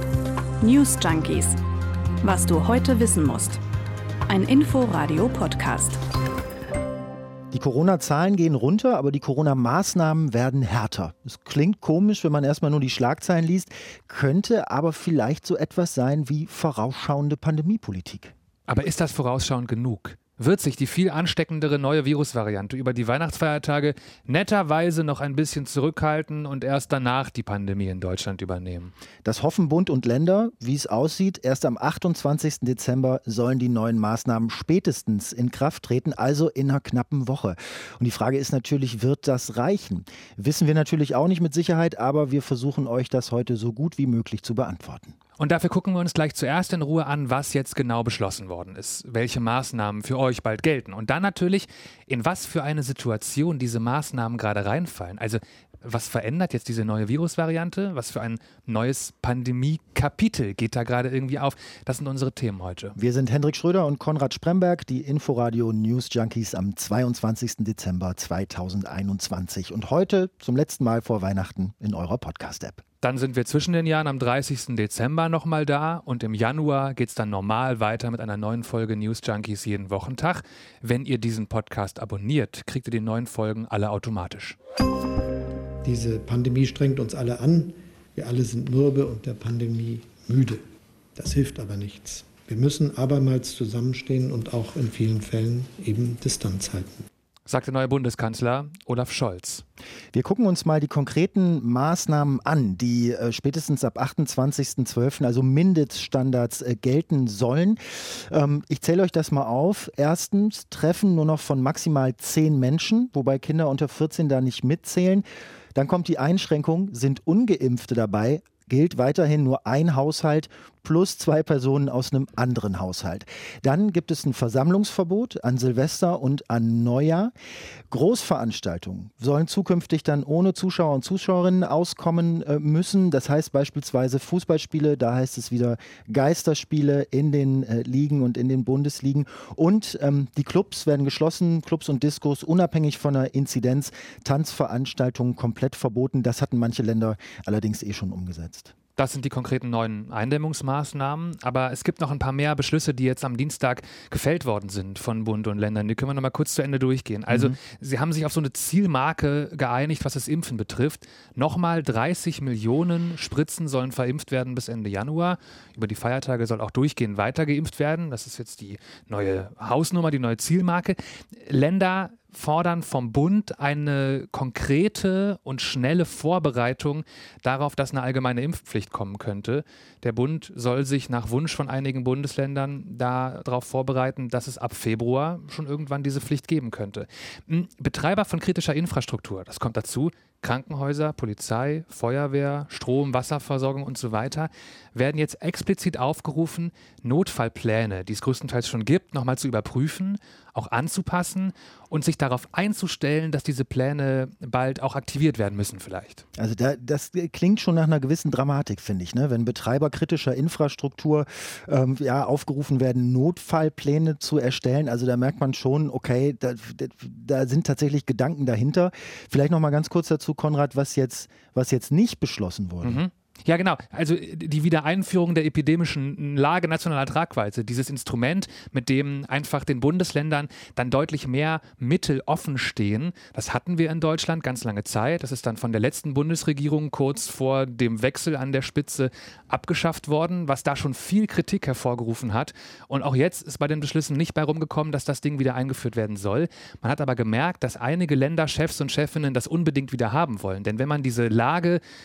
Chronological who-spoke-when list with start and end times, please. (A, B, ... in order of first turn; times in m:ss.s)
0:00.6-0:01.6 A
0:02.2-0:03.6 A
0:04.3-0:06.0 A
0:07.5-0:18.3 B
0:18.7-0:28.9 C
0:29.2-0:45.2 B
0:45.4-1:03.0 C
1:03.0-1:12.8 B
1:13.0-1:24.6 C
1:25.8-1:30.6 D
1:31.2-1:37.1 D
1:37.5-1:39.6 C
1:40.1-2:07.3 B
2:07.9-2:28.7 B
2:29.0-3:26.2 C
2:37.3-2:37.6 B
3:26.4-3:43.0 B
3:42.8-4:11.8 C